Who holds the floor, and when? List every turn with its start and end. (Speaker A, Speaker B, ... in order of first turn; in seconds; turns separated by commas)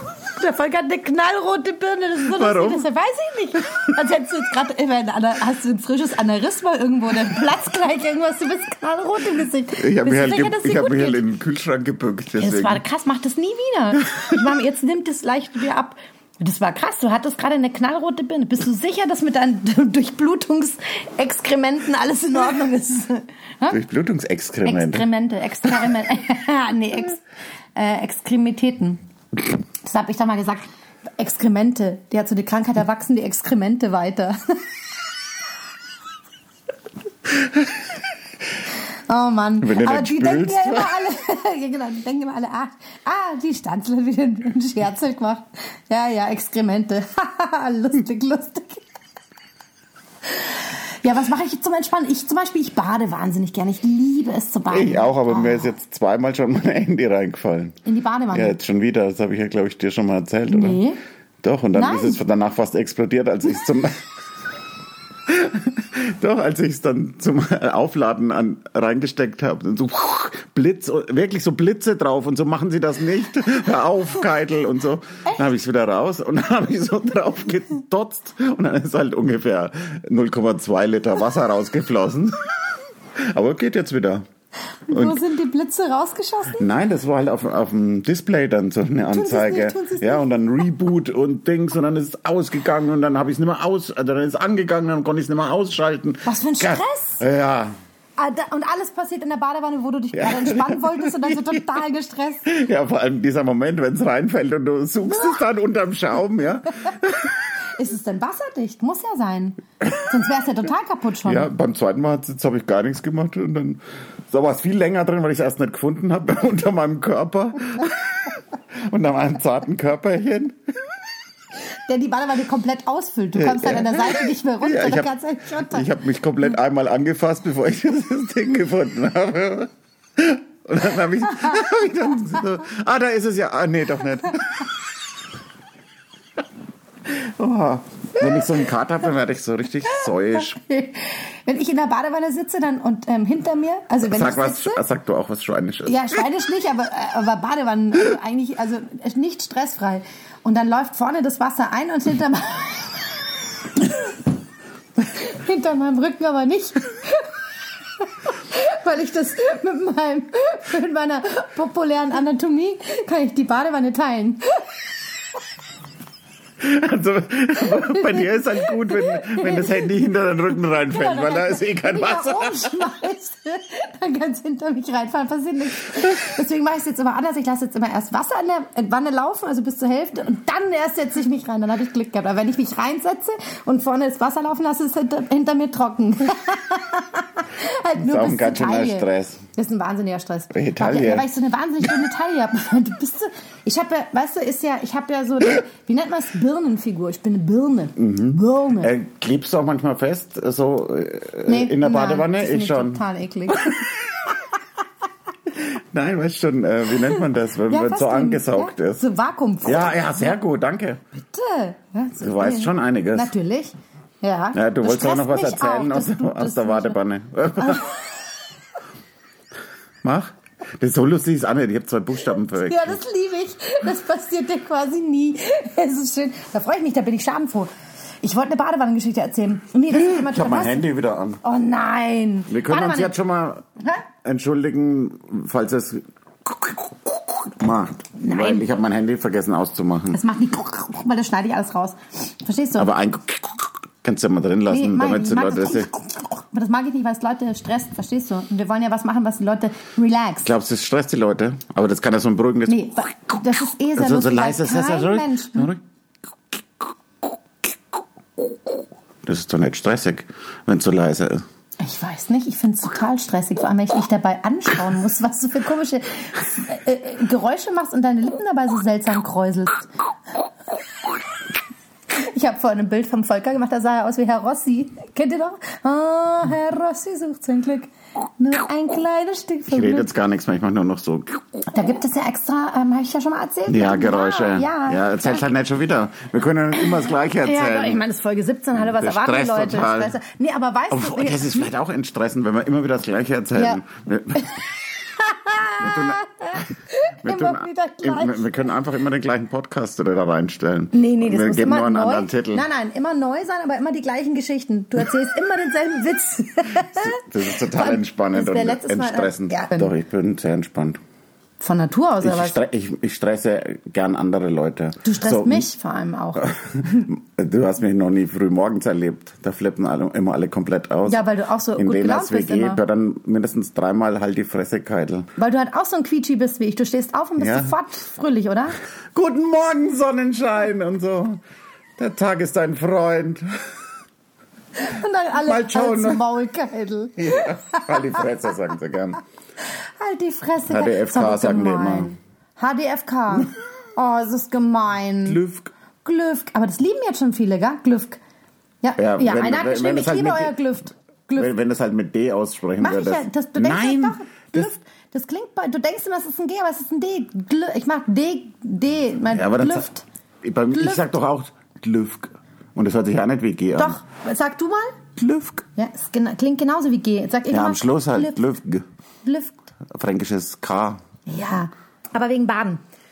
Speaker A: 0.3-11.2, Speaker B: 2.3-2.9, Speaker B: 9.8-12.8, Speaker A: 12.4-23.8, Speaker B: 23.7-25.1, Speaker A: 24.6-27.2, Speaker A: 27.8-29.0, Speaker A: 29.8-30.6, Speaker A: 31.2-34.6, Speaker A: 39.1-48.8, Speaker B: 39.6-40.9, Speaker A: 50.4-55.7, Speaker B: 54.7-57.8, Speaker A: 57.9-58.6, Speaker B: 58.3-60.8, Speaker A: 60.5-61.0, Speaker B: 61.4-64.0, Speaker A: 61.7-62.2, Speaker B: 65.3-82.4, Speaker B: 83.2-84.2, Speaker A: 84.9-86.7, Speaker B: 84.9-85.2, Speaker B: 86.5-97.7, Speaker A: 89.1-90.3, Speaker A: 96.3-97.2, Speaker A: 98.2-102.5, Speaker B: 100.1-101.6, Speaker B: 102.5-107.3, Speaker A: 107.8-111.5, Speaker B: 111.2-120.6, Speaker A: 121.9-125.8, Speaker B: 123.4-134.7, Speaker B: 137.1-140.6, Speaker A: 139.9-144.8, Speaker B: 144.0-146.2, Speaker A: 145.9-153.2, Speaker A: 153.8-154.1, Speaker A: 155.0-157.3, Speaker A: 158.0-164.7, Speaker B: 166.6-172.8, Speaker A: 167.9-169.8, Speaker A: 170.9-198.9, Speaker B: 188.0-189.4, Speaker B: 190.5-191.3, Speaker B: 198.0-203.0, Speaker A: 201.5-203.9, Speaker B: 205.5-209.0, Speaker A: 207.7-210.0, Speaker B: 209.6-211.0, Speaker A: 211.2-217.0, Speaker B: 212.2-213.3, Speaker B: 214.5-217.9, Speaker A: 217.6-217.9, Speaker B: 220.0-222.9, Speaker A: 222.6-227.7, Speaker A: 228.2-230.9, Speaker B: 229.9-231.4, Speaker A: 231.4-233.2, Speaker B: 232.5-233.6, Speaker A: 233.8-234.1, Speaker B: 234.2-240.2, Speaker A: 238.2-238.6, Speaker A: 240.1-242.9, Speaker B: 242.8-245.9, Speaker A: 244.7-250.5, Speaker B: 250.4-252.9, Speaker A: 252.7-255.7, Speaker B: 254.0-255.8, Speaker B: 259.2-261.4, Speaker A: 261.8-269.9, Speaker A: 272.1-280.1, Speaker B: 279.7-281.4, Speaker A: 281.7-285.4, Speaker B: 283.7-288.0, Speaker A: 287.4-291.7, Speaker B: 288.8-290.1, Speaker B: 290.9-294.5, Speaker A: 294.4-298.4, Speaker B: 295.8-296.7, Speaker B: 297.2-302.7, Speaker A: 300.9-309.9, Speaker B: 307.0-311.0, Speaker A: 311.6-312.6, Speaker B: 312.2-315.7, Speaker A: 315.0-317.0, Speaker B: 316.4-321.2, Speaker A: 321.1-322.8, Speaker B: 321.8-325.3, Speaker A: 325.4-328.8, Speaker B: 327.4-327.7, Speaker B: 329.1-331.4, Speaker B: 332.0-333.5, Speaker A: 334.8-338.2, Speaker B: 335.4-336.2, Speaker B: 337.2-339.2, Speaker A: 340.0-345.4, Speaker B: 340.7-342.1, Speaker B: 345.2-345.7, Speaker A: 346.0-348.2, Speaker A: 348.8-351.5, Speaker B: 349.0-350.6, Speaker B: 351.4-354.7, Speaker A: 352.8-360.0, Speaker B: 359.3-359.9, Speaker B: 360.4-364.0, Speaker A: 360.7-361.0, Speaker A: 363.8-365.0, Speaker B: 365.2-365.6, Speaker A: 365.8-368.4, Speaker B: 367.5-368.9, Speaker A: 369.2-369.6, Speaker B: 369.9-371.0, Speaker A: 371.3-372.8